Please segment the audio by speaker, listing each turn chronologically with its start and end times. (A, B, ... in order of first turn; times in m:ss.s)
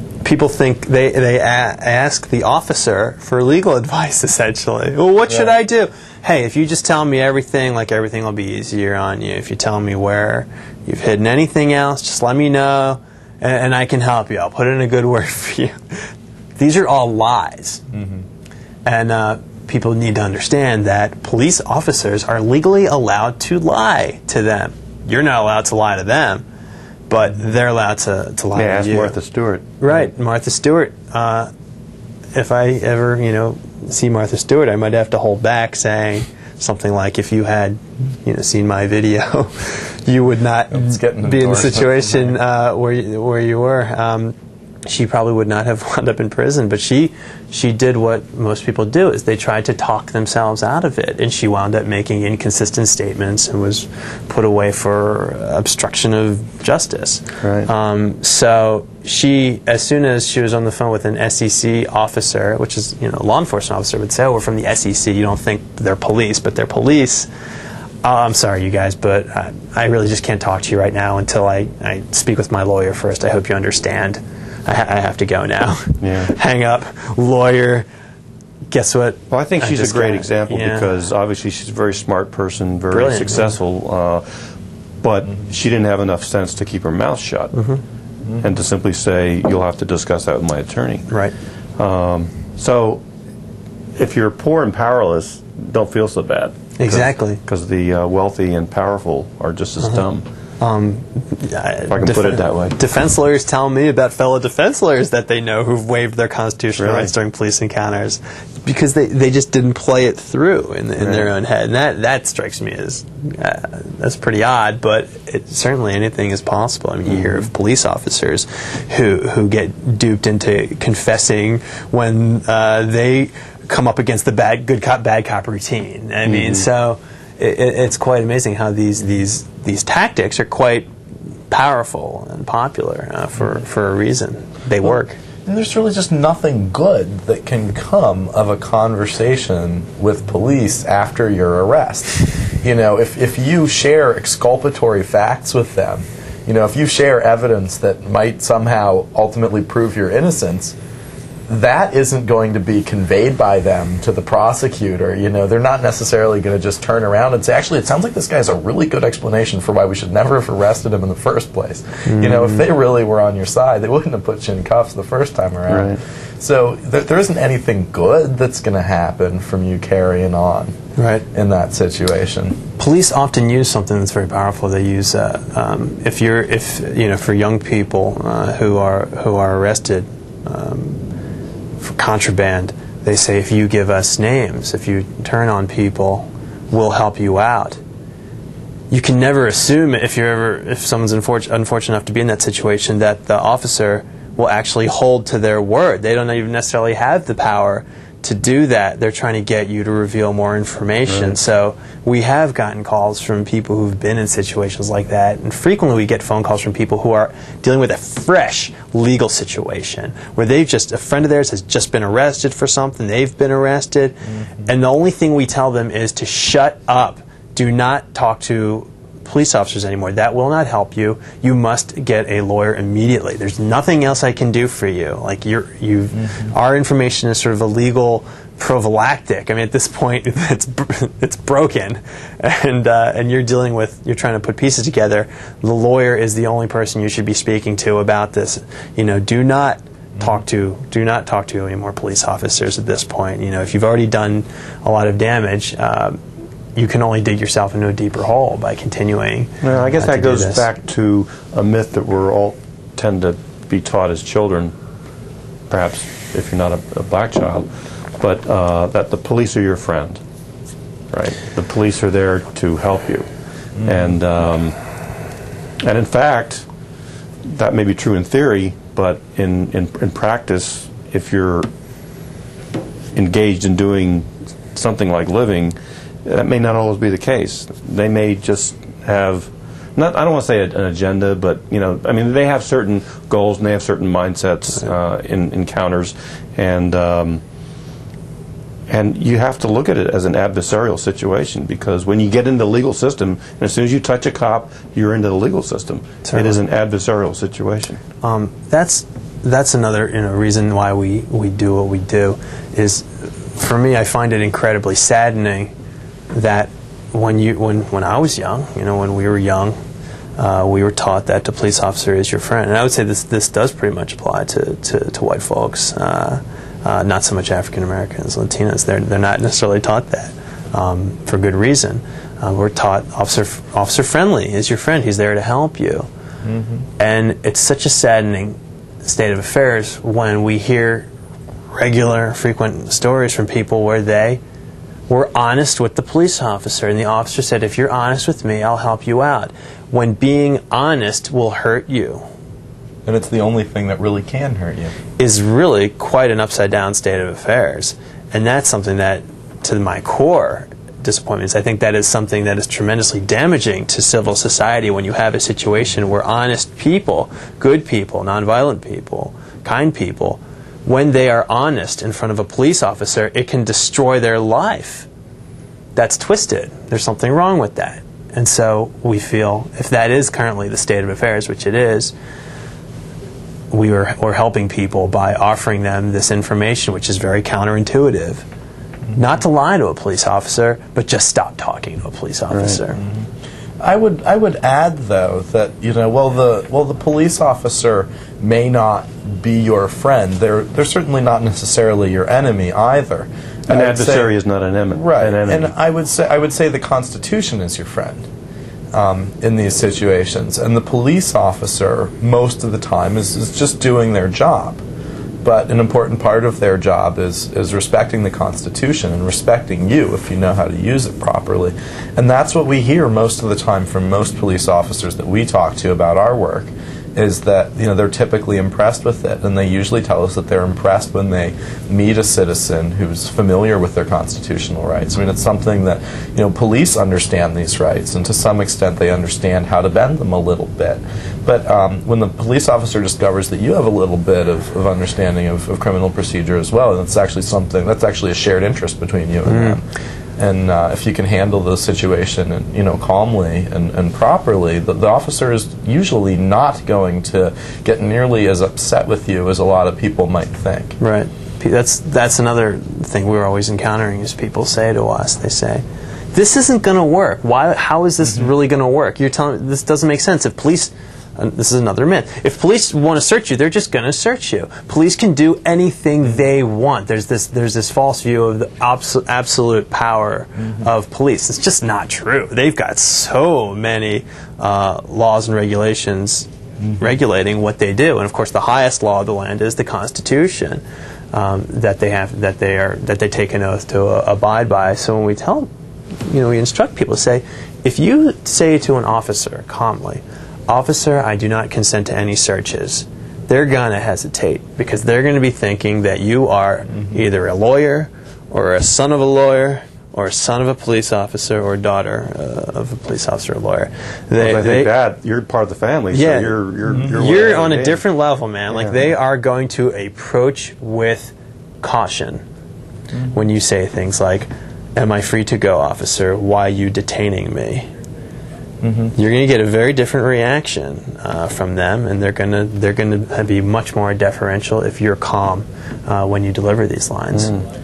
0:00.2-0:17.8 A
0:17.9-0:18.2 B
0:18.8-0:26.4 A
0:27.1-0:29.2 A
0:28.6-0:30.0 C
0:29.8-0:31.5 A
0:32.3-0:44.3 A
0:40.7-0:42.4 B
0:44.9-1:07.3 A
0:57.4-0:57.7 C
1:08.0-1:17.9 A
1:16.0-1:16.3 C
1:18.7-1:20.9 A
1:19.3-1:24.5 C
1:22.9-1:23.6 A
1:25.0-1:27.6 C
1:27.5-1:27.8 A
1:28.4-1:31.1 C
1:31.1-1:31.3 A
1:31.8-1:33.0 C
1:34.0-1:40.3 C
1:36.8-1:37.4 A
1:40.6-2:10.9 A
1:41.9-1:42.8 C
1:46.8-1:47.1 C
1:51.0-1:51.3 C
1:57.1-1:57.4 C
2:06.3-2:06.6 C
2:11.5-2:15.2 A
2:15.4-2:30.8 B
2:31.5-2:50.8 B
2:42.1-2:42.6 C
2:45.7-2:46.0 C
2:51.0-2:51.2 A
2:51.3-2:52.6 B
2:52.8-3:01.0 A
3:01.8-3:07.8 A
3:08.9-4:06.2 A
3:21.1-3:21.3 C
4:06.8-4:10.7 A
4:09.6-4:14.7 C
4:15.7-4:20.2 C
4:21.1-4:23.3 C
4:23.8-4:24.8 C
4:25.8-4:26.7 C
4:27.5-4:31.7 C
4:33.1-4:47.4 C
4:48.9-4:58.0 C
4:56.2-4:56.6 A
4:58.2-5:05.7 A
5:06.3-5:09.8 A
5:10.4-5:26.1 A
5:27.0-5:31.1 A
5:31.7-5:34.4 A
5:35.1-5:42.2 A
5:43.0-5:44.9 B
5:45.2-6:05.1 A
6:05.9-6:12.1 A
6:13.7-6:18.4 A
6:19.2-6:23.0 A
6:22.5-6:22.8 C
6:23.8-6:34.3 B
6:33.7-6:35.7 C
6:34.9-6:38.3 B
6:38.9-6:44.8 B
6:45.4-7:19.8 B
7:19.5-7:19.8 A
7:20.4-7:31.0 B
7:31.0-8:05.7 A
8:06.2-8:24.9 A
8:24.4-8:28.0 C
8:26.1-8:32.4 A
8:28.7-8:29.1 C
8:33.3-8:37.9 A
8:39.2-8:47.5 A
8:47.3-8:47.6 C